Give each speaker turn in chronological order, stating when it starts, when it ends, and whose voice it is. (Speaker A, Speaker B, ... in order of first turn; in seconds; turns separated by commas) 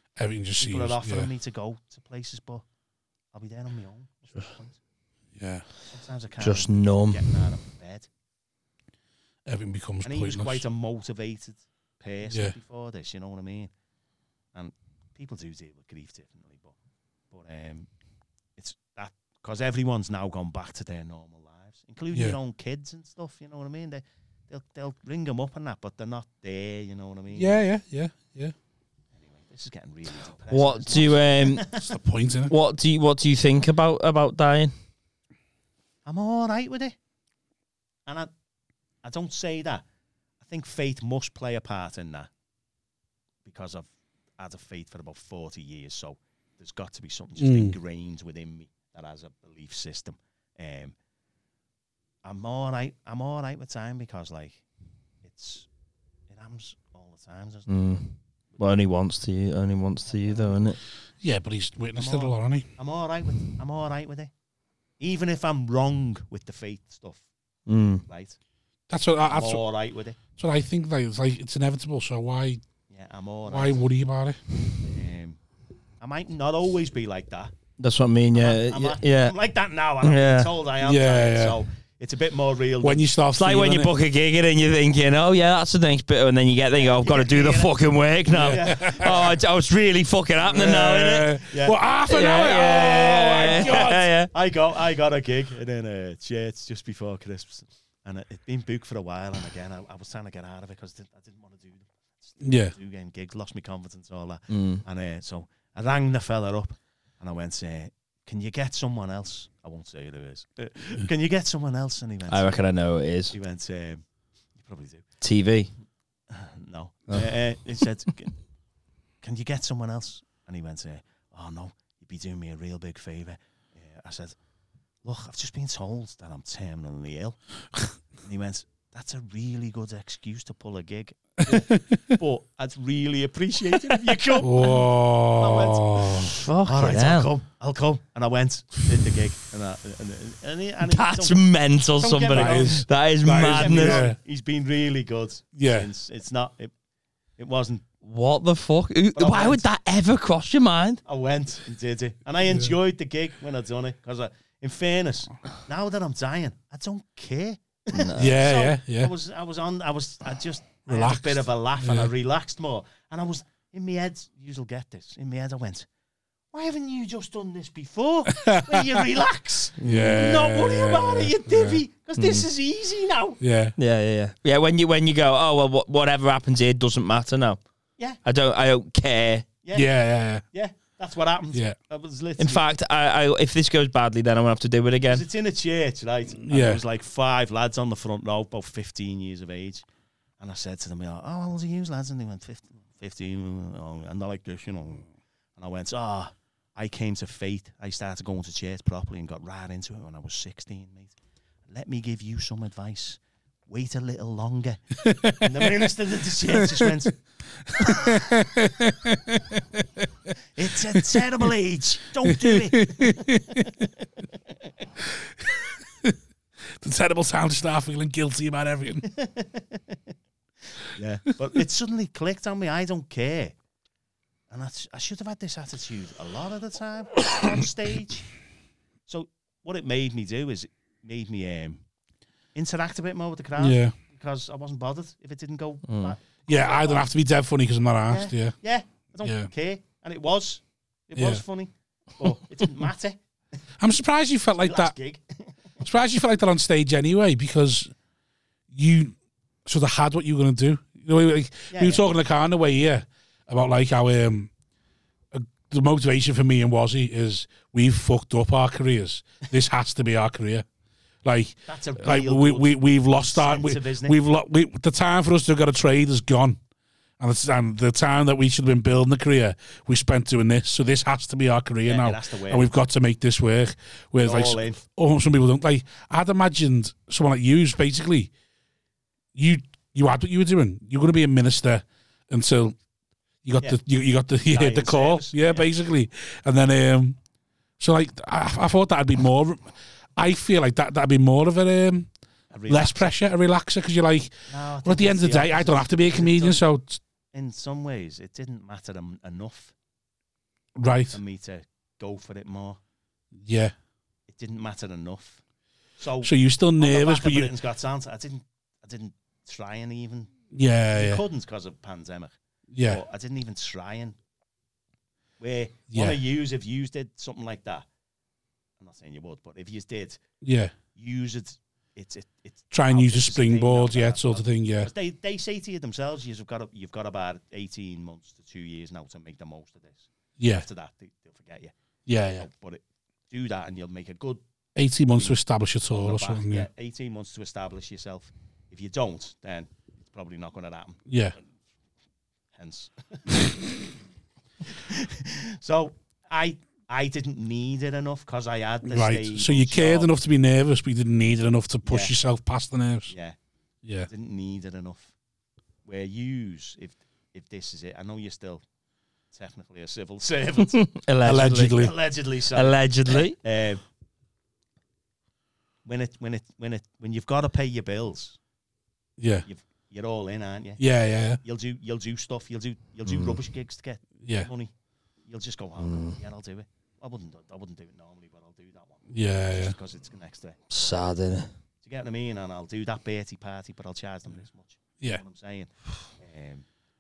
Speaker A: 0.2-1.3, Speaker B: 0.6-2.6, Speaker B: 3.3-4.8, Speaker A: 5.4-5.7, Speaker B: 5.9-8.1, Speaker C: 6.4-7.2, Speaker A: 9.5-10.6, Speaker B: 10.0-13.7, Speaker A: 12.3-12.6, Speaker B: 14.5-16.8, Speaker B: 17.3-17.9, Speaker B: 18.6-27.6, Speaker A: 27.3-28.5, Speaker B: 29.1-31.9, Speaker C: 30.5-31.7, Speaker A: 31.7-32.5, Speaker C: 32.5-34.7, Speaker B: 36.0-37.0, Speaker B: 38.1-38.3, Speaker B: 39.0-39.9, Speaker B: 40.4-42.3, Speaker B: 43.5-51.0, Speaker A: 47.4-47.8, Speaker B: 52.2-54.6, Speaker B: 55.2-55.7, Speaker B: 56.3-57.7, Speaker C: 57.7-60.8, Speaker B: 60.1-60.8, Speaker A: 61.2-62.7, Speaker B: 62.0-64.3, Speaker B: 65.0-67.3, Speaker C: 67.7-68.0, Speaker B: 68.1-68.4, Speaker A: 68.9-69.6, Speaker B: 69.3-70.2, Speaker A: 70.4-72.6, Speaker B: 72.9-73.8, Speaker A: 73.5-74.4, Speaker B: 74.8-75.4, Speaker B: 76.0-77.5, Speaker C: 77.8-79.4, Speaker B: 78.3-83.1, Speaker C: 80.0-80.5, Speaker A: 80.8-81.6, Speaker A: 82.8-83.9, Speaker C: 83.3-91.4, Speaker B: 86.7-87.8, Speaker B: 88.3-89.4, Speaker A: 88.3-89.1, Speaker A: 90.5-94.0, Speaker B: 91.4-91.8, Speaker C: 92.1-94.3, Speaker B: 93.4-112.7, Speaker A: 102.4-102.7, Speaker C: 104.5-104.8, Speaker C: 112.3-113.3, Speaker B: 113.3-114.0, Speaker B: 114.5-115.0, Speaker C: 115.2-115.7, Speaker B: 116.3-118.4, Speaker B: 119.2-124.4, Speaker B: 125.0-127.4, Speaker B: 128.2-146.7, Speaker A: 131.5-132.2, Speaker A: 134.4-136.3, Speaker C: 136.3-137.3, Speaker C: 140.8-144.1, Speaker A: 142.3-144.2, Speaker A: 145.6-145.9, Speaker B: 147.4-147.8, Speaker C: 148.0-151.0, Speaker B: 149.2-149.7, Speaker B: 151.1-165.9, Speaker C: 157.9-158.4, Speaker A: 158.2-159.1, Speaker A: 160.9-162.1, Speaker B: 166.5-173.4, Speaker A: 168.3-169.0, Speaker C: 169.8-170.2, Speaker A: 169.8-171.8, Speaker C: 172.2-172.4, Speaker A: 173.4-173.8, Speaker C: 173.8-177.6, Speaker C: 178.2-179.5, Speaker B: 179.6-179.9, Speaker A: 179.7-180.4, Speaker B: 180.4-182.7, Speaker C: 182.4-185.2, Speaker B: 185.1-189.9, Speaker A: 186.4-186.8, Speaker B: 190.4-201.2, Speaker B: 201.7-207.2, Speaker A: 205.1-205.6, Speaker A: 207.7-209.8, Speaker B: 207.8-208.2, Speaker B: 210.6-214.1, Speaker A: 210.9-211.2, Speaker A: 212.3-213.7, Speaker A: 216.8-219.1, Speaker B: 219.1-220.0, Speaker B: 220.9-223.6, Speaker B: 224.5-228.3, Speaker B: 229.1-231.8, Speaker B: 232.6-237.1, Speaker A: 233.6-233.9, Speaker C: 235.9-236.2, Speaker A: 236.5-238.6, Speaker B: 238.1-243.2, Speaker A: 239.2-239.5, Speaker A: 241.2-241.4, Speaker A: 243.8-244.9, Speaker B: 244.6-245.5, Speaker A: 245.8-247.9, Speaker A: 248.7-254.5, Speaker B: 251.7-252.0, Speaker A: 255.3-260.7, Speaker A: 261.2-266.6, Speaker B: 261.7-264.2, Speaker A: 267.2-278.3, Speaker B: 271.8-272.7, Speaker B: 274.2-274.8, Speaker A: 279.4-282.8, Speaker A: 283.4-287.2, Speaker B: 284.5-285.7, Speaker A: 287.8-292.1, Speaker B: 292.5-293.1, Speaker A: 292.7-297.0, Speaker B: 294.5-296.7, Speaker B: 297.3-299.7, Speaker A: 300.8-301.2, Speaker B: 301.1-302.8, Speaker A: 303.4-303.7, Speaker B: 304.3-305.4, Speaker B: 306.0-310.3, Speaker A: 306.2-307.5, Speaker A: 310.5-311.2, Speaker B: 310.9-314.2, Speaker A: 312.7-313.0, Speaker B: 315.4-317.9, Speaker A: 315.9-316.2, Speaker B: 318.8-320.2, Speaker A: 320.4-320.8, Speaker B: 320.9-331.7, Speaker A: 322.7-324.9, Speaker A: 330.4-330.7, Speaker A: 332.1-332.5, Speaker B: 332.3-334.4, Speaker A: 334.8-336.7, Speaker B: 335.1-335.4, Speaker B: 335.9-341.1, Speaker A: 341.1-341.4, Speaker B: 342.5-343.6, Speaker B: 344.6-350.1, Speaker A: 348.9-353.1, Speaker B: 351.8-352.1, Speaker B: 353.1-353.4, Speaker A: 353.8-354.1, Speaker B: 354.1-355.1, Speaker B: 355.9-358.6, Speaker B: 359.3-360.9, Speaker C: 360.7-361.9, Speaker A: 361.2-361.9, Speaker B: 361.7-363.8, Speaker C: 362.5-363.4, Speaker B: 365.9-368.4, Speaker A: 369.2-369.5, Speaker B: 369.5-374.7, Speaker A: 370.8-371.4, Speaker C: 373.1-373.4, Speaker A: 374.2-374.5, Speaker B: 375.2-380.7, Speaker C: 375.8-376.2, Speaker A: 379.1-379.7, Speaker C: 380.7-381.5, Speaker B: 381.8-386.6